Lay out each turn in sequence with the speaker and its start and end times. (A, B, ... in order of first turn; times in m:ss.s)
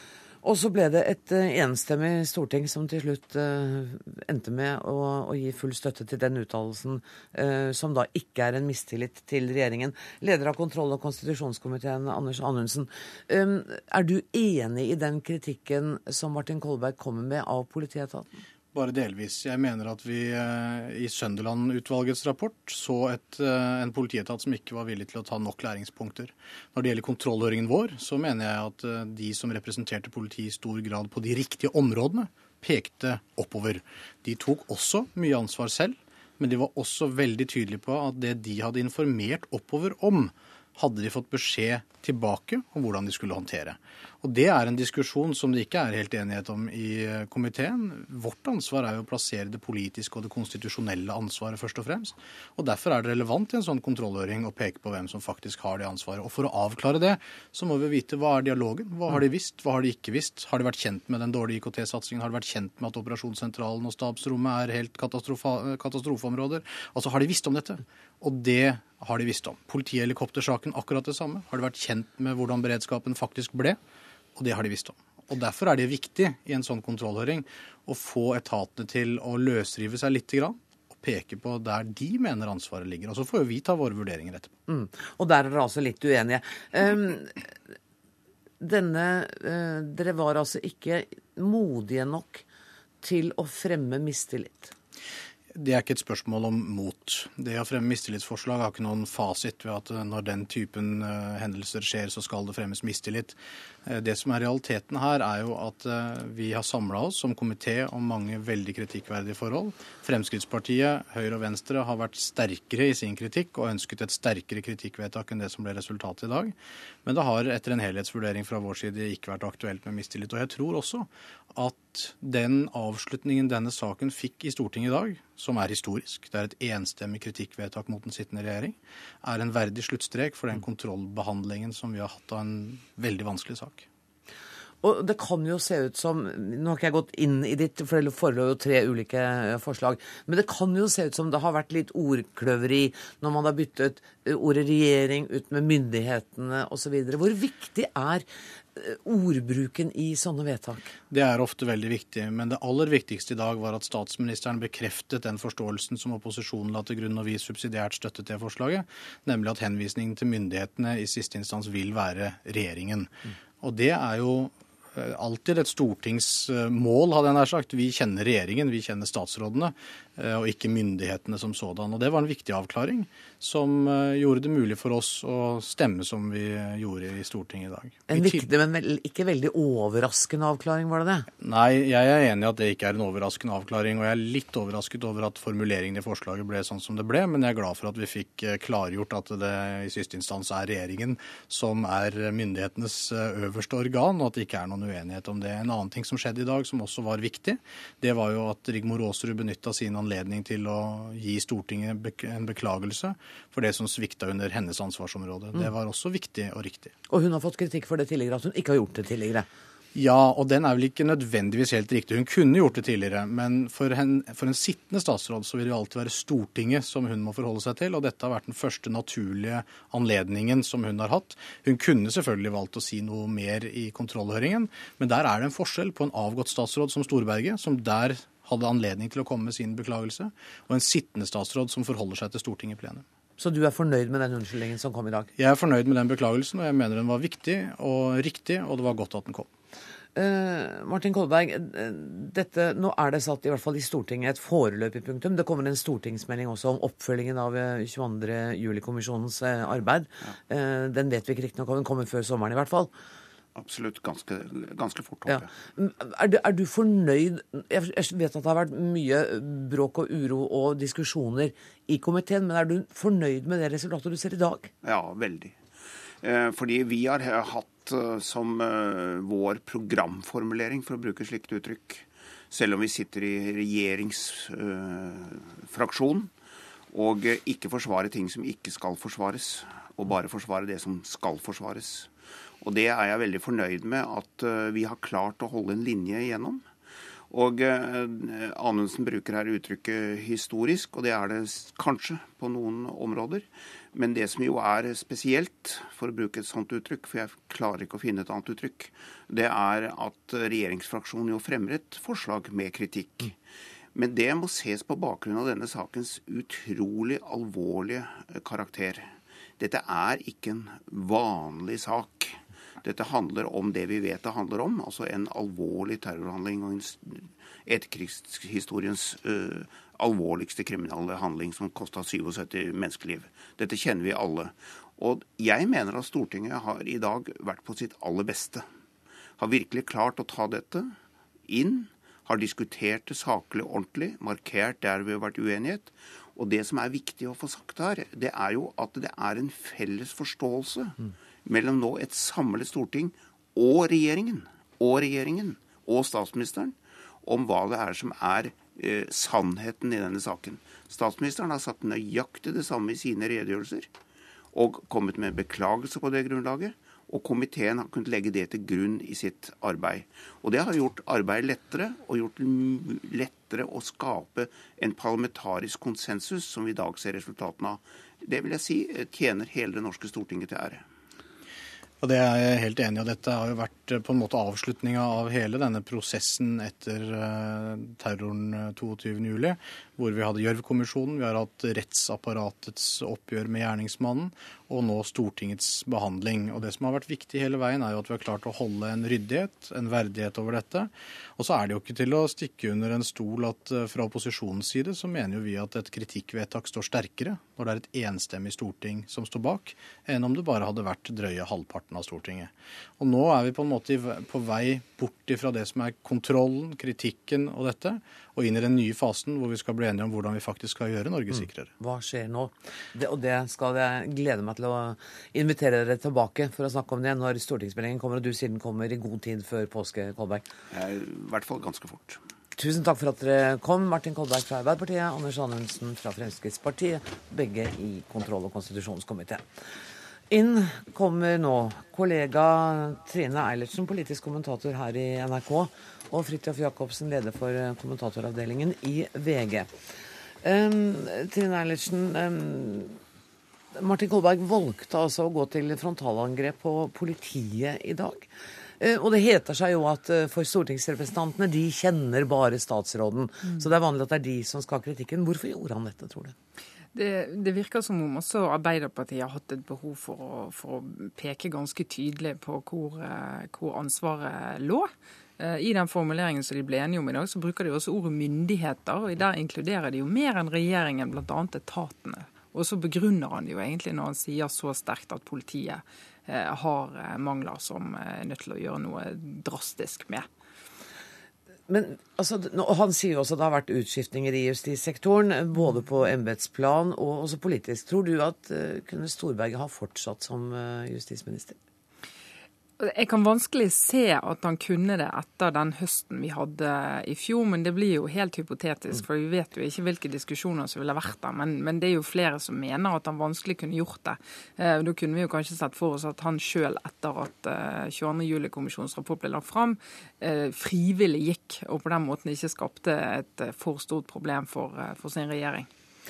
0:00.4-0:18.3 A
0:18.7-1:13.8 B
1:14.4-1:24.5 B
1:24.7-1:27.6 A
1:28.6-1:32.4 A
1:33.0-1:34.7 A
1:35.5-2:13.8 B
2:14.8-2:30.9 A
2:31.1-2:58.4 B
2:58.1-3:01.3 A
3:01.4-3:26.9 B
3:27.1-3:29.5 A
3:29.9-3:53.0 B
3:53.4-3:55.3 A
3:55.4-3:59.5 B
4:00.1-4:12.9 A
4:13.6-4:15.5 C
4:15.3-4:24.7 A
4:24.8-4:25.6 C
4:26.2-4:36.3 C
4:36.9-4:46.7 C
4:47.3-5:03.4 C
5:03.9-5:28.6 C
5:29.4-5:30.9 C
5:31.5-5:53.9 C
5:54.5-6:10.8 C
6:12.0-6:51.7 B
6:51.8-7:00.5 A
7:00.7-7:02.2 C
7:02.5-7:09.4 A
7:10.3-7:19.7 A
7:20.4-7:23.0 A
7:23.7-7:36.3 A
7:36.9-8:00.3 D
8:01.7-8:11.6 A
8:12.8-8:35.7 D